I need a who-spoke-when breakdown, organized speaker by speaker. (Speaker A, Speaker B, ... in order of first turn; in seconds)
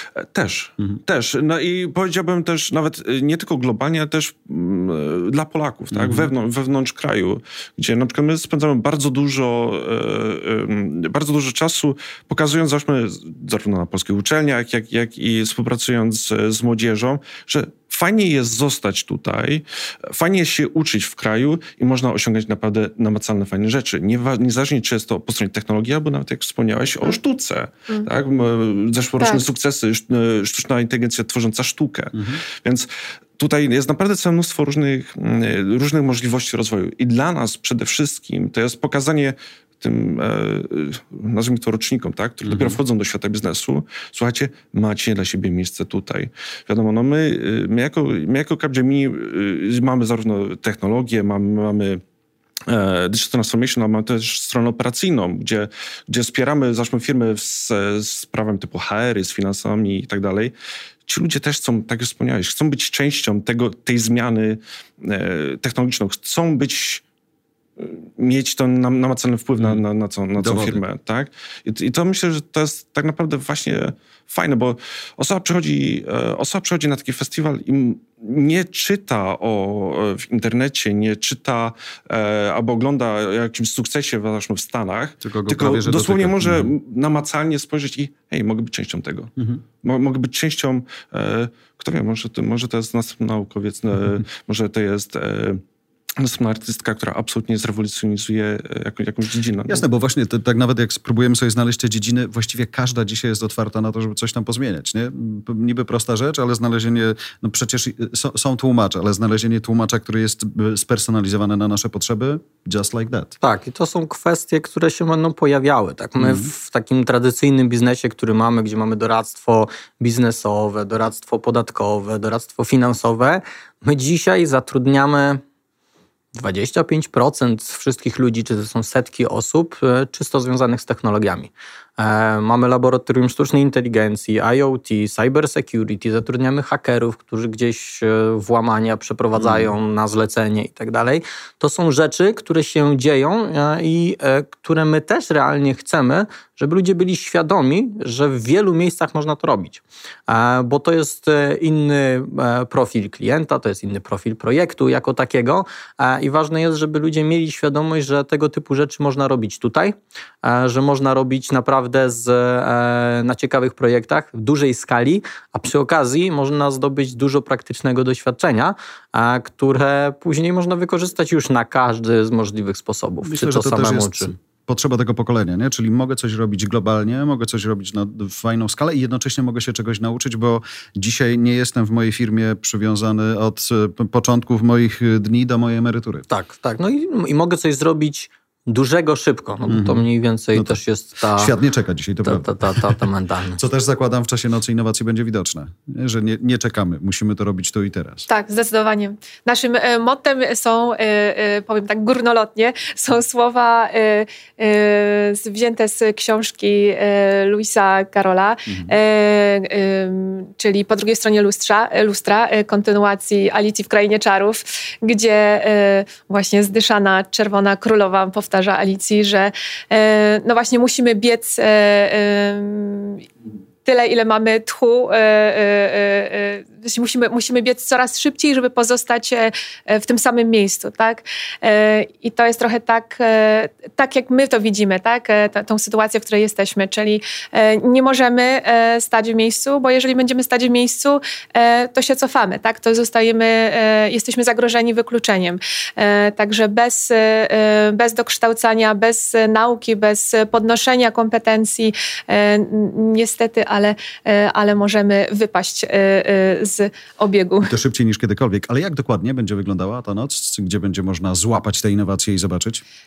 Speaker A: 0.2-32.9, 33.4-52.0, 52.7-60.5, 61.0-67.0, 67.8-89.3, 89.8-95.6, 96.2-99.8
Speaker B: 5.9-6.3, 32.1-32.4, 42.5-42.8, 70.4-70.8, 85.2-86.7, 99.7-113.3, 116.2-116.5, 139.4-139.7, 173.2-186.2, 189.7-193.0, 193.6-198.2, 208.7-208.9, 257.6-262.8
Speaker C: 29.2-29.4, 198.3-223.2, 223.8-257.7
Speaker D: 113.4-125.4, 126.3-174.3, 186.3-191.5, 192.2-193.6